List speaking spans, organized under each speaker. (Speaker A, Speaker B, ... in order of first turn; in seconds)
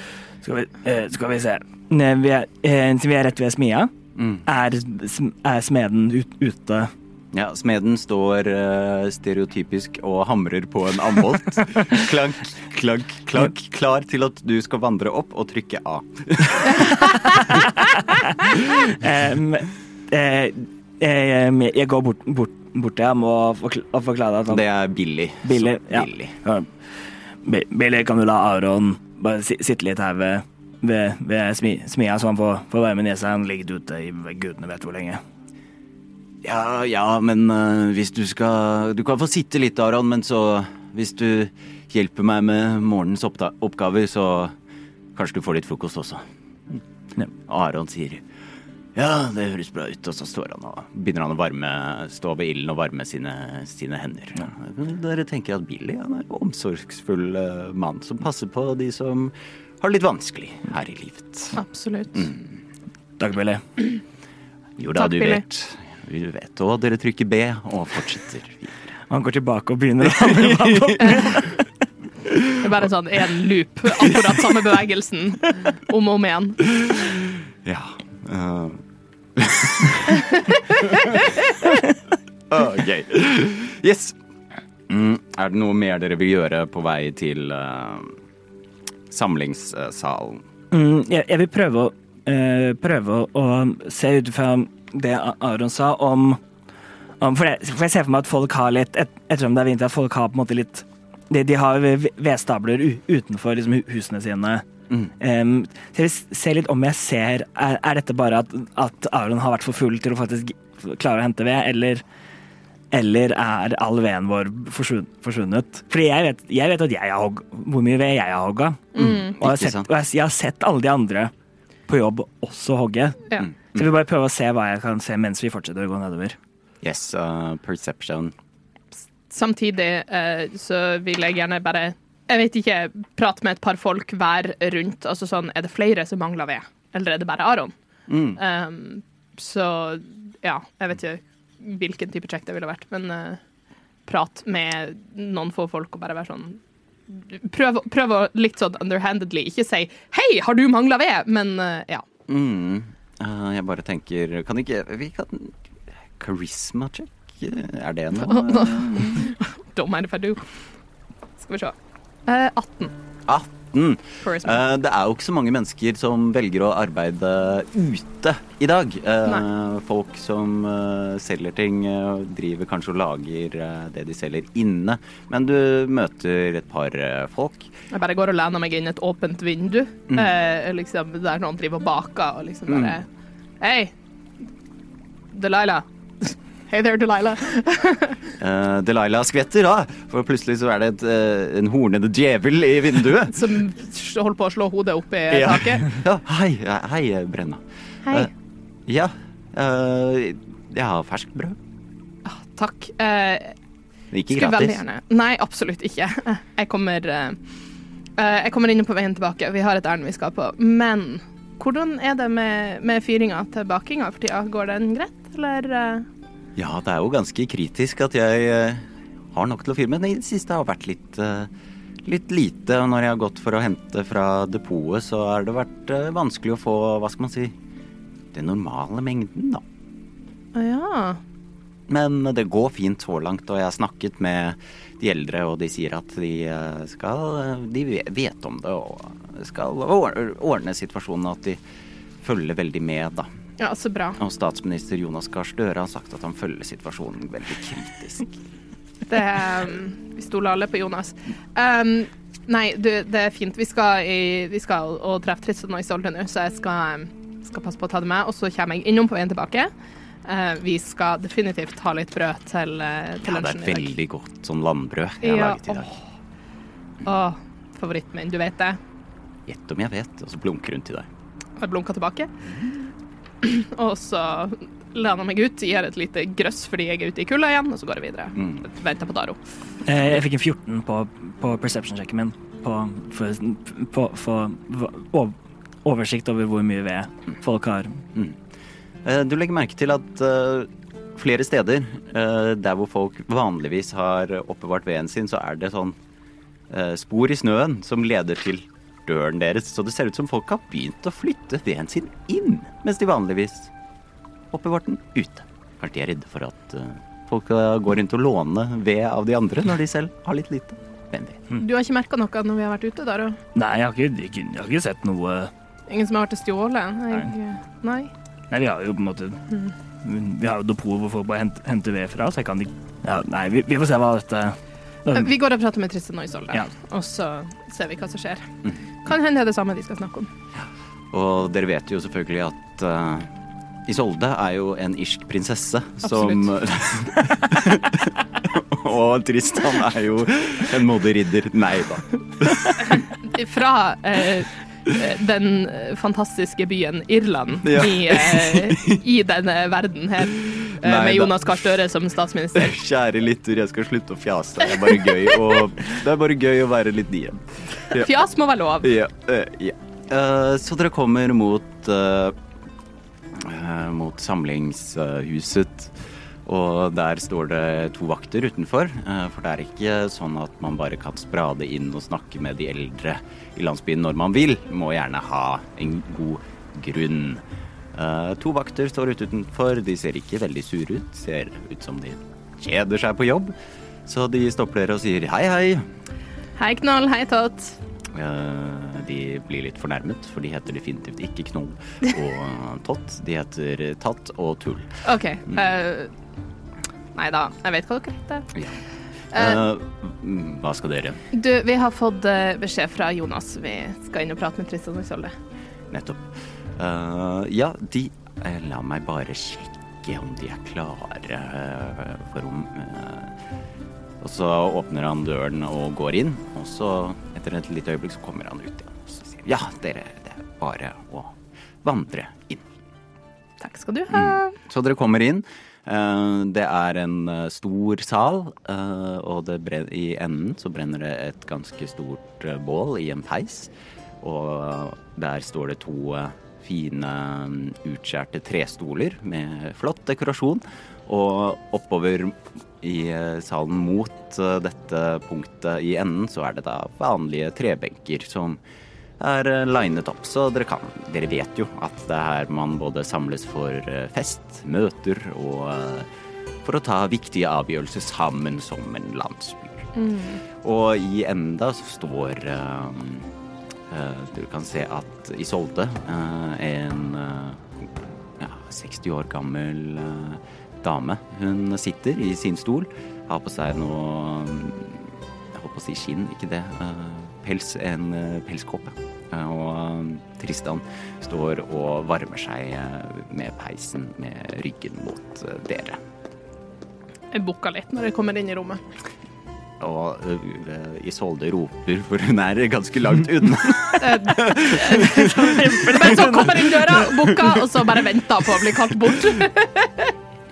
Speaker A: 0.4-3.9, 4.4-6.9, 17.4-24.6, 25.4-26.7, 27.4-35.2, 63.2-63.6, 69.1-71.5, 90.7-96.4, 97.2-104.6, 105.2-112.0, 112.9-121.3, 121.9-126.4, 279.8-288.0, 313.5-315.5, 318.5-319.4, 320.0-325.3
Speaker B: 4.2-4.4, 7.3-17.7, 24.5-26.4, 36.4-44.5, 45.1-46.8, 47.5-48.2, 48.9-61.6, 62.1-62.6, 64.8-68.7, 70.6-71.0, 77.0-78.8, 79.3-80.2, 80.8-81.3, 82.5-84.2, 84.9-88.2, 89.1-90.4, 119.0-119.9, 123.4-123.8, 126.8-128.3, 138.1-138.4, 152.3-155.6, 156.2-159.2, 163.3-177.7, 182.7-183.0, 188.4-193.6, 195.3-198.3, 198.9-201.6, 204.1-204.8, 216.6-221.5, 222.0-227.6, 228.3-229.6, 231.9-241.6, 242.2-243.3, 244.2-248.3, 263.2-265.9, 269.4-271.1, 288.1-288.4, 289.0-296.0, 296.7-303.7, 304.5-311.4, 331.1-333.3, 333.9-343.0, 347.6-349.0, 350.4-351.8, 352.5-358.1, 358.8-362.4, 363.3-377.4, 377.9-383.5, 384.1-385.9, 388.1-395.6, 399.3-401.2, 405.9-413.3, 414.2-422.7, 424.1-448.6, 449.2-456.1, 456.6-459.9, 460.5-463.3, 463.9-486.0, 489.8-497.6
Speaker C: 61.5-62.3, 65.0-65.4, 72.5-77.1, 118.9-119.3, 129.3-137.7, 138.4-143.4, 144.1-152.1, 158.2-160.6, 161.4-162.9, 164.2-164.6, 177.9-183.1, 183.6-183.9, 185.3-188.3, 193.3-195.9, 198.0-198.3, 202.2-203.6, 204.3-207.4, 208.2-216.1, 230.5-231.2, 243.6-244.2, 249.1-259.7, 260.2-263.9, 265.2-265.9, 267.0-268.8, 271.6-272.3, 273.4-279.4, 311.5-313.4, 315.9-318.1, 325.1-328.5, 329.0-330.3, 336.0-336.5, 342.8-352.7, 357.9-358.9, 386.6-387.8, 395.0-396.1, 397.1-398.6, 399.3-399.6, 401.3-405.3, 423.6-424.6, 459.9-460.4, 487.3-488.8, 494.0-500.1